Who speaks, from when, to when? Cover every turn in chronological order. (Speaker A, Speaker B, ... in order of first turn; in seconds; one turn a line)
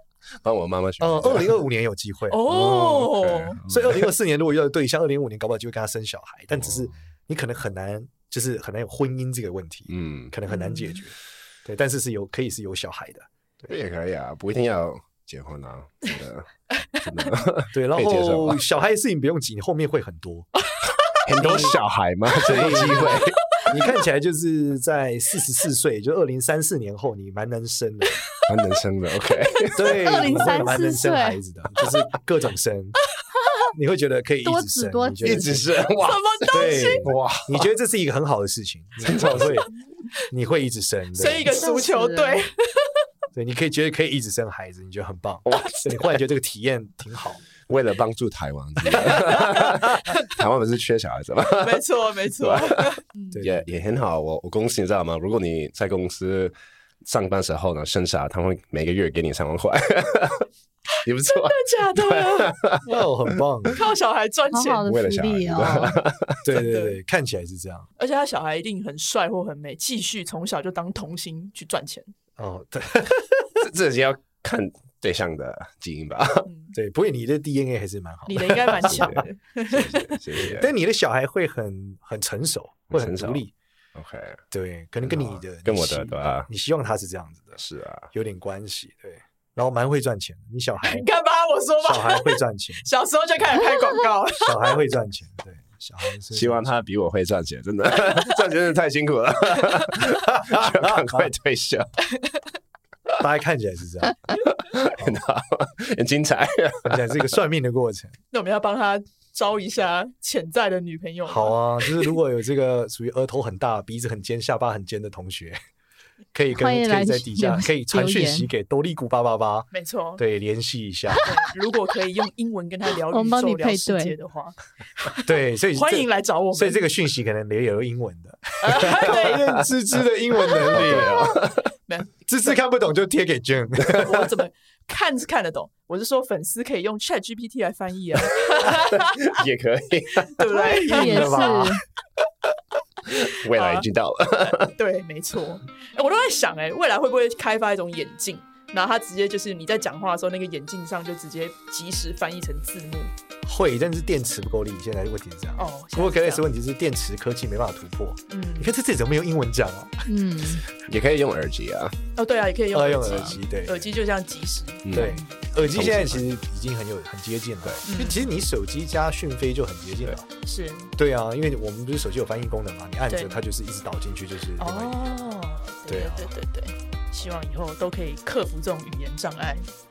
Speaker A: 0.4-1.6
Speaker B: 1.0-13.7
Speaker C: 2.3-3.6
Speaker A: 3.2-4.1
Speaker A: 6.5-6.9
Speaker A: 9.9-10.3
Speaker C: 10.5-11.0
Speaker A: 13.7-18.6
Speaker C: 16.9-17.3
Speaker B: 17.7-20.5
Speaker A: 21.2-23.4
Speaker B: 21.4-21.8
Speaker B: 22.4-28.2
Speaker C: 23.0-23.7
Speaker A: 28.5-30.4
Speaker B: 29.7-33.0
Speaker D: 30.0-31.4
Speaker B: 33.7-35.7
Speaker D: 34.4-35.6
Speaker A: 35.2-37.7
Speaker C: 36.0-37.1
Speaker B: 36.5-39.7
Speaker A: 39.0-39.7
Speaker B: 40.3-41.5
Speaker C: 41.1-43.0
Speaker D: 41.5-42.4
Speaker B: 43.3-47.4
Speaker A: 45.4-46.2
Speaker A: 47.7-51.8
Speaker C: 49.0-50.2
Speaker C: 51.6-53.4
Speaker A: 52.4-60.5
Speaker B: 53.3-53.7
Speaker A: 61.0-63.4
Speaker C: 61.3-62.6
Speaker B: 62.8-63.8
Speaker C: 63.7-64.8
Speaker D: 64.5-66.0
Speaker A: 64.8-66.5
Speaker B: 66.4-67.9
Speaker C: 66.5-67.0
Speaker C: 68.0-72.1
Speaker B: 72.4-73.6
Speaker A: 73.6-76.5
Speaker C: 76.5-76.7
Speaker B: 76.7-79.2
Speaker C: 78.3-80.2
Speaker A: 78.8-80.7
Speaker B: 80.4-83.5
Speaker A: 82.9-83.4
Speaker A: 83.9-84.4
Speaker B: 84.5-87.6
Speaker A: 85.0-86.5
Speaker A: 87.6-88.1
Speaker B: 88.1-91.0
Speaker C: 90.8-94.8
Speaker B: 91.8-92.8
Speaker B: 94.4-96.7
Speaker A: 96.3-101.9
Speaker B: 100.2-101.3
Speaker C: 102.1-102.5
Speaker B: 103.2-104.3
Speaker A: 104.4-107.3
Speaker B: 106.8-108.1
Speaker C: 108.3-112.1
Speaker B: 111.3-115.6
Speaker B: 116.3-121.3
Speaker D: 116.5-118.5
Speaker C: 119.7-120.2
Speaker C: 121.2-126.8
Speaker D: 123.1-124.1
Speaker B: 125.2-131.2
Speaker C: 128.6-129.6
Speaker A: 128.6-129.7
Speaker C: 130.4-132.1
Speaker A: 130.5-131.7
Speaker B: 132.3-134.2
Speaker C: 133.9-139.4
Speaker A: 138.7-140.4
Speaker C: 140.2-141.4
Speaker B: 140.5-141.8
Speaker D: 140.8-141.8
Speaker A: 143.1-144.7
Speaker C: 143.5-143.8
Speaker C: 144.4-153.1
Speaker B: 153.4-160.1
Speaker C: 155.6-156.5
Speaker C: 158.3-158.7
Speaker D: 160.1-160.6
Speaker A: 160.8-161.9
Speaker C: 162.2-165.3
Speaker B: 162.7-163.9
Speaker A: 164.8-165.2
Speaker B: 164.9-170.2
Speaker A: 165.7-166.3
Speaker C: 167.9-168.3
Speaker C: 170.4-170.9
Speaker B: 171.0-175.0
Speaker C: 173.1-173.3
Speaker C: 174.6-179.7
Speaker B: 175.9-176.3